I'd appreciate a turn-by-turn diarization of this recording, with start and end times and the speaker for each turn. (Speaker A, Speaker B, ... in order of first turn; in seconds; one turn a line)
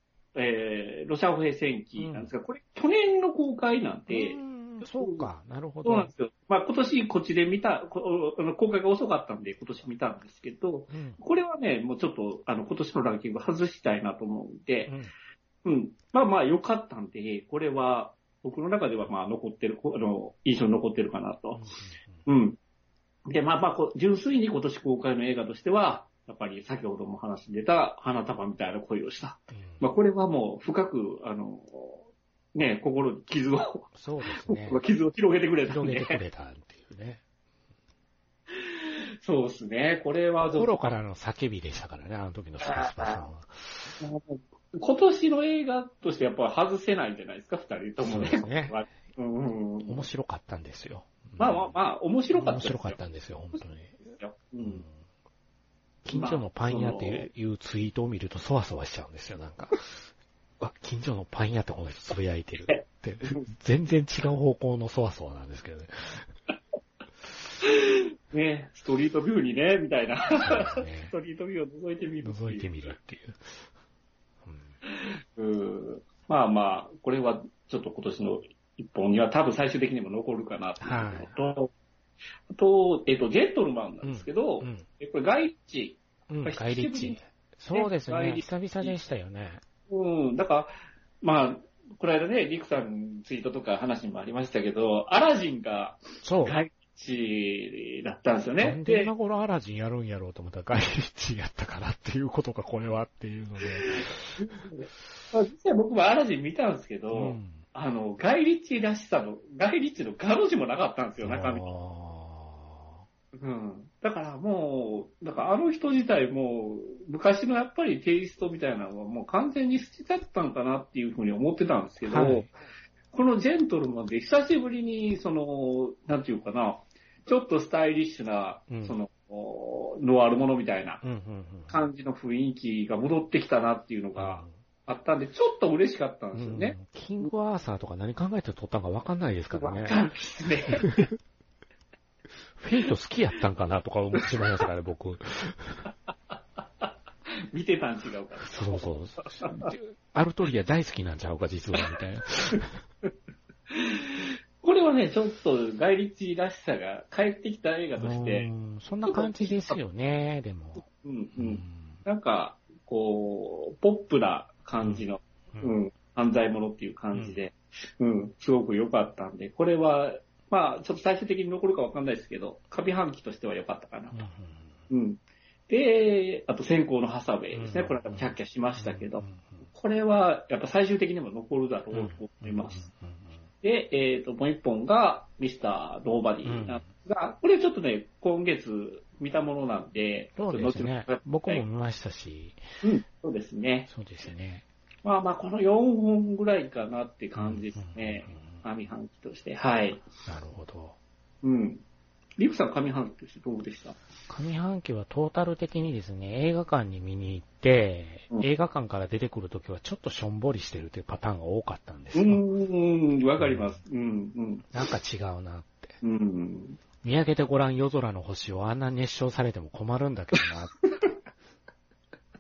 Speaker A: 0.3-5.3
Speaker B: 2.0-2.3
Speaker B: 4.1-6.1
Speaker A: 5.8-14.9
Speaker B: 10.9-11.2
Speaker B: 14.9-15.1
Speaker A: 15.6-21.7
Speaker B: 21.6-22.3
Speaker A: 22.2-22.6
Speaker A: 23.3-36.2
Speaker B: 29.5-29.9
Speaker B: 33.9-34.8
Speaker B: 35.7-37.2
Speaker A: 38.5-40.7
Speaker B: 40.4-44.0
Speaker A: 42.6-43.2
Speaker A: 44.0-50.1
Speaker B: 48.0-48.9
Speaker B: 49.9-51.8
Speaker A: 51.4-53.0
Speaker B: 52.3-54.0
Speaker A: 54.0-54.8
Speaker B: 54.6-54.9
Speaker B: 56.0-60.0
Speaker A: 56.1-57.3
Speaker B: 60.6-66.3
Speaker A: 62.7-63.5
Speaker A: 67.6-72.8
Speaker B: 70.4-71.1
Speaker B: 72.2-73.6
Speaker B: 74.4-74.8
Speaker A: 74.9-81.7
Speaker B: 80.8-81.3
Speaker A: 82.5-87.2
Speaker B: 84.0-84.9
Speaker B: 86.3-89.6
Speaker A: 87.7-89.0
Speaker A: 89.9-99.1
Speaker B: 96.2-96.6
Speaker B: 98.6-104.5
Speaker A: 103.9-111.7
Speaker B: 107.1-107.6
Speaker B: 111.2-113.0
Speaker A: 113.3-122.5
Speaker B: 122.0-122.5
Speaker A: 123.1-131.0
Speaker B: 128.7-129.0
Speaker B: 131.0-131.9
Speaker A: 131.7-137.3
Speaker B: 134.2-134.6
Speaker B: 136.3-140.0
Speaker A: 139.5-141.1
Speaker B: 142.6-145.9
Speaker A: 147.5-149.7
Speaker B: 148.4-152.8
Speaker A: 153.7-158.5
Speaker B: 158.0-160.8
Speaker A: 159.0-159.8
Speaker A: 161.0-174.2
Speaker B: 161.4-162.0
Speaker B: 164.8-165.8
Speaker B: 167.1-167.4
Speaker B: 174.1-174.8
Speaker A: 174.9-182.9
Speaker B: 177.5-179.7
Speaker B: 181.9-183.5
Speaker A: 183.6-191.6
Speaker B: 186.4-186.9
Speaker B: 190.4-192.6
Speaker A: 192.8-193.9
Speaker B: 193.9-194.6
Speaker A: 195.0-200.0
Speaker B: 197.4-198.7
Speaker B: 200.2-200.9
Speaker A: 201.4-201.8
Speaker A: 202.4-204.0
Speaker B: 204.3-212.4
Speaker A: 212.1-214.7
Speaker B: 213.4-213.8
Speaker B: 214.7-216.0
Speaker A: 216.0-216.8
Speaker B: 217.0-220.7